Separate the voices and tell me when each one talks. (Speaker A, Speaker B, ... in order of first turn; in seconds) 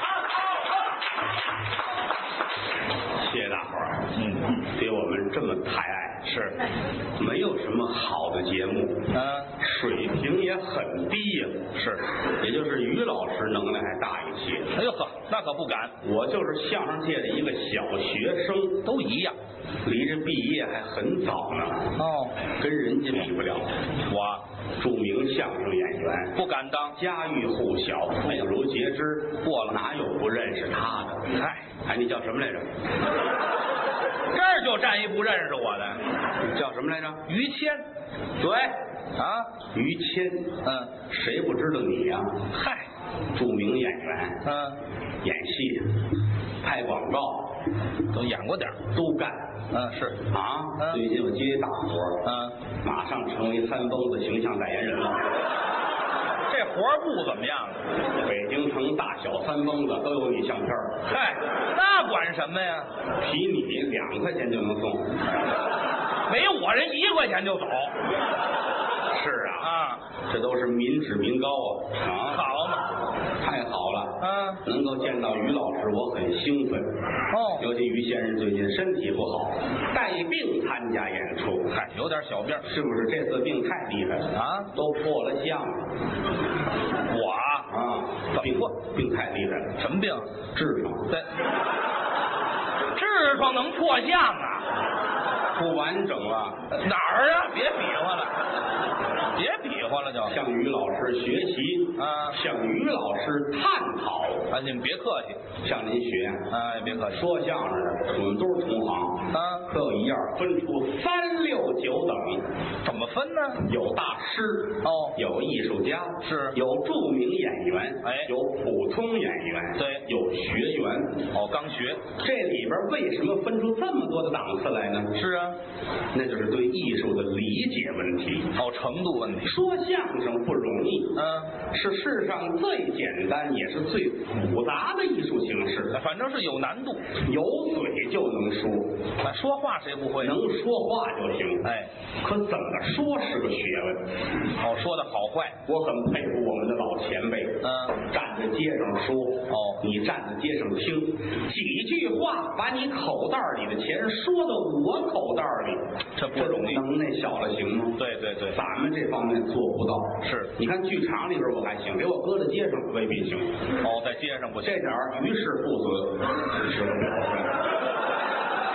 Speaker A: 3.2-4.0, 4.7-6.2, 7.2-9.0, 9.6-11.6, 12.4-14.7, 16.0-18.8, 19.8-21.9, 22.6-23.7, 24.8-26.3, 27.0-31.2, 31.9-32.7, 36.4-37.2, 38.4-38.7, 39.7-40.5, 41.1-42.3, 43.3-44.4, 45.2-45.9, 46.6-47.5, 48.9-49.4, 50.3-52.2, 52.8-55.2, 58.2-60.9, 63.2-65.1, 69.1-69.7, 70.3-72.4, 73.4-76.9, 77.6-81.7, 82.7-85.8, 87.7-89.7, 90.5-91.1, 95.5-96.6, 100.2-104.5, 105.6-106.5, 107.1-112.4, 113.6-121.2, 122.2-125.1, 126.1-128.5, 129.4-131.2, 131.7-135.9, 137.2-138.9, 140.2-141.7, 142.2-144.0, 145.7-147.6, 148.1-155.8, 156.3-158.0, 158.5-163.5, 164.6-167.5
Speaker B: 4.2-4.6, 6.2-6.5, 9.1-9.5, 11.7-12.0, 14.7-16.0, 18.8-19.4, 22.0-22.4, 24.1-24.4, 26.3-27.0, 29.4-29.7, 31.3-31.7, 34.3-36.0, 37.3-37.8, 39.2-39.5, 40.6-40.9, 42.5-42.8, 44.4-44.8, 48.1-48.9, 49.7-50.2, 52.2-52.6, 56.5-57.8, 61.1-62.9, 66.3-67.9, 69.6-70.0, 72.3-72.8, 74.2-74.6, 77.3-77.7, 81.7-82.7, 84.3-84.7, 87.1-87.7, 88.3-88.7, 89.8-90.3, 92.9-94.7, 96.7-98.4, 99.3-100.4, 102.0-102.4, 104.5-105.4, 106.5-107.2, 109.3-109.7, 112.8-113.6, 114.8-115.2, 116.2-116.6, 118.0-118.3, 119.8-120.0, 121.3-122.1, 125.1-125.6, 128.6-129.6, 131.1-131.5, 135.9-137.1, 139.2-140.4, 141.6-141.9, 144.6-145.6, 147.6-148.0, 149.5-149.8, 156.2-156.8, 158.0-158.6, 160.2-160.5, 163.8-164.9